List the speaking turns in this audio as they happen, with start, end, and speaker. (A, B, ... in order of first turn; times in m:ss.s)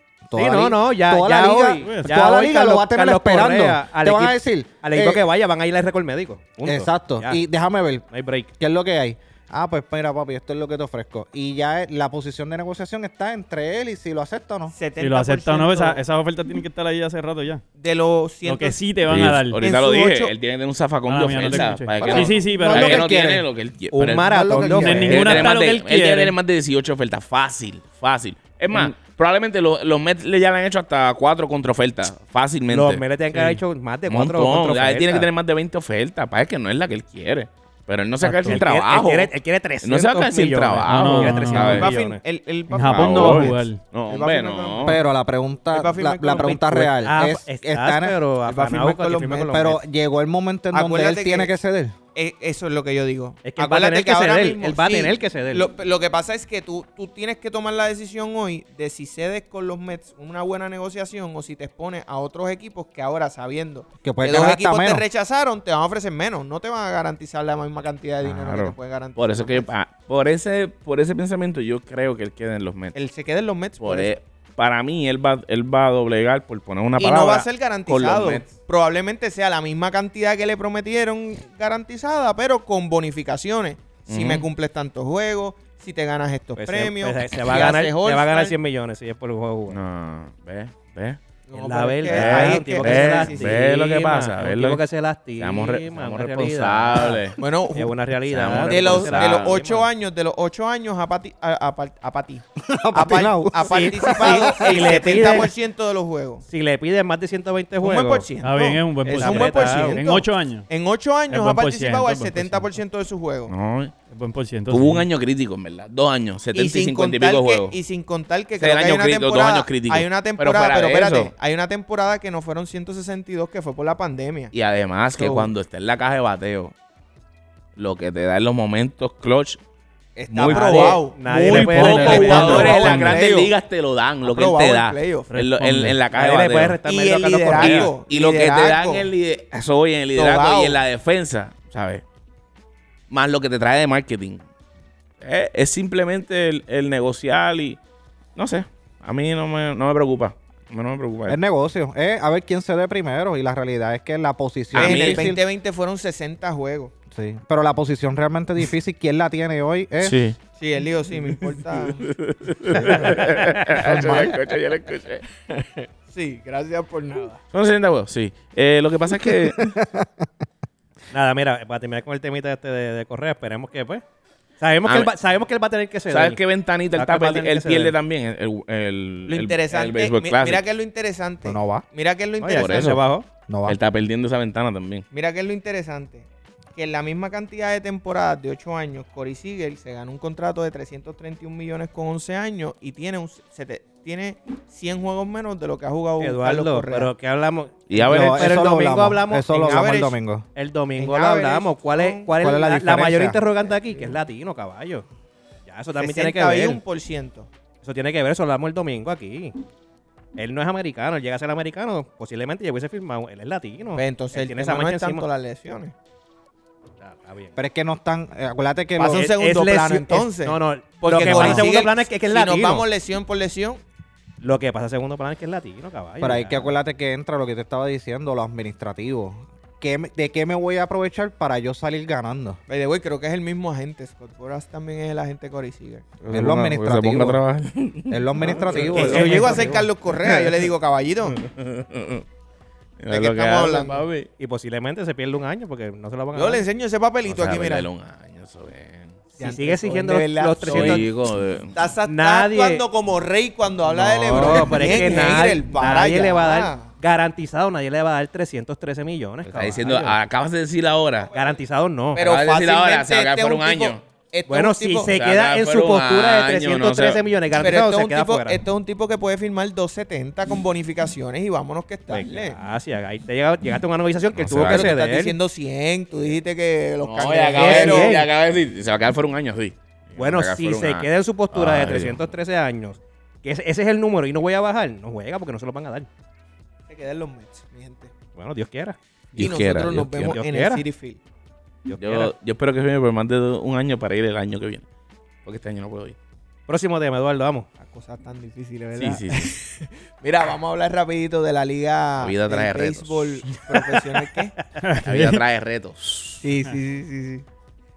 0:00.3-0:05.2 A
0:00.3-0:07.4 B
0:01.8-0:02.1 C
0:06.6-0:08.0 A
0:08.1-0:08.5 B
0:08.6-0:14.7 A
0:14.7-0:16.0 D
0:15.0-0:17.6 C
0:17.8-0:18.8 D
0:18.4-0:19.6 C
0:19.0-0:33.1 E
0:19.6-0:20.3 D
0:21.0-0:23.1 C
0:21.5-0:22.3 D
0:22.2-0:23.4 A
0:23.9-0:25.5 B
0:24.2-0:25.3 A
0:24.6-0:26.3 C
0:32.7-0:35.3 B
0:33.3-0:33.6 C
0:34.0-0:41.9 E
0:38.2-0:38.6 C
0:38.4-0:42.2 B
0:40.8-0:41.8 C
0:41.6-0:45.0 D
0:42.7-0:43.8 C
0:42.9-0:45.0 E
0:44.8-0:48.2 A
0:45.7-0:46.9 D
0:47.0-0:49.8 B
0:48.4-0:49.8 D
0:49.5-0:52.0 A
0:50.7-0:51.5 D
0:52.1-1:09.7 D
0:53.4-0:55.7 B
1:04.0-1:05.0 A
1:08.2-1:12.9 E
1:12.9-1:14.1 D
1:13.8-1:18.5 E
1:17.0-1:28.5 D
1:24.1-1:24.5 E
1:26.6-1:29.8 B
1:29.7-1:31.2 E
1:31.5-1:33.6 D
1:31.5-1:37.2 B
1:32.0-1:34.8 E
1:35.4-1:37.4 E
1:37.4-1:37.9 D
1:37.8-1:39.9 B
1:38.3-1:39.6 E
1:38.6-1:46.4 D
1:42.6-1:44.9 A
1:43.6-1:45.5 B
1:46.4-1:48.3 B
1:47.8-1:53.5 D
1:48.4-1:50.7 C
1:49.0-1:50.0 B
1:51.3-1:52.7 C
1:53.5-1:53.9 E
1:54.1-1:55.0 C
1:54.7-1:57.8 E
1:56.5-2:04.5 D
1:58.6-2:01.3 E
2:04.5-2:06.7 E
2:05.1-2:05.5 D
2:07.8-2:09.6 E
2:10.2-2:13.5 D
2:10.3-2:11.0 E
2:10.4-2:13.2 B
2:11.4-2:12.9 C
2:11.7-2:16.8 E
2:14.2-2:15.3 D
2:15.3-2:16.0 C
2:16.1-2:17.9 B
2:16.8-2:19.1 D
2:17.5-2:22.0 E
2:20.1-2:20.8 D
2:23.1-2:24.4 E
2:25.2-2:27.8 E
2:28.4-2:31.4 E
2:31.3-2:35.4 A
2:34.7-2:35.3 E
2:34.8-2:36.9 D
2:37.1-2:40.2 A
2:40.0-2:40.4 E
2:40.6-2:42.1 D
2:41.6-2:45.2 E
2:42.7-2:44.3 A
2:45.5-2:47.4 D
2:47.5-2:49.8 E
2:49.3-2:50.2 A
2:51.1-2:54.0 B
2:54.6-2:56.4 B
2:54.8-2:55.1 E
2:56.1-3:00.6 E
2:57.0-2:57.9 B
2:59.3-3:03.0 D
3:01.4-3:01.8 A
3:02.4-3:03.2 B
3:02.5-3:03.0 E
3:03.5-3:03.8 A
3:03.6-3:05.0 E
3:05.1-3:17.1 D
3:16.2-3:19.8 B
3:17.9-3:18.6 E
3:17.9-3:20.5 A
3:19.6-3:20.2 D
3:20.5-3:25.0 B
3:21.0-3:22.3 D
3:22.4-3:23.4 A
3:23.7-3:24.2 D
3:25.6-3:26.8 B
3:26.0-3:27.5 D
3:27.8-3:29.6 B
3:30.4-3:35.2 B
3:34.0-3:35.9 D
3:37.0-3:37.6 B
3:37.6-3:39.3 A
3:39.0-3:42.8 B
3:39.0-3:43.8 D
3:41.2-3:41.7 A
3:44.4-3:46.7 B
3:46.2-3:52.6 A
3:52.7-3:56.0 D
3:56.2-3:59.3 E
3:56.3-3:57.4 A
3:58.1-3:59.7 A
3:58.7-4:01.4 D
3:58.9-3:59.8 B
4:01.4-4:02.2 E
4:03.0-4:04.3 E
4:03.1-4:04.0 D
4:04.4-4:06.6 B
4:06.3-4:07.9 D
4:07.2-4:09.2 E
4:09.4-4:11.1 D
4:09.4-4:11.0 B
4:10.6-4:11.7 E
4:11.7-4:16.9 D
4:12.0-4:12.8 B
4:13.8-4:20.2 B
4:14.4-4:15.0 E
4:19.4-4:21.3 E
4:21.2-4:21.6 D
4:21.3-4:22.2 B
4:22.1-4:25.1 D
4:22.2-4:24.0 E
4:24.5-4:28.6 B
4:25.1-4:27.2 E
4:27.6-4:32.6 D
4:32.1-4:35.4 B
4:34.3-4:34.9 E
4:34.6-4:38.2 D
4:37.0-4:42.3 E
4:37.5-4:38.3 B
4:40.2-4:46.1 B
4:46.9-4:48.1 D
4:48.4-4:49.0 B
4:49.3-4:50.4 E
4:49.4-4:51.2 D
4:50.2-4:50.8 B
4:51.8-4:52.3 B
4:52.0-4:54.8 E
4:55.4-4:56.2 E
4:56.7-4:57.7 B
4:57.8-5:04.5 D
4:58.9-4:59.5 E
5:02.2-5:03.3 E
5:04.8-5:05.4 C
5:05.0-5:06.4 E
5:06.4-5:07.4 D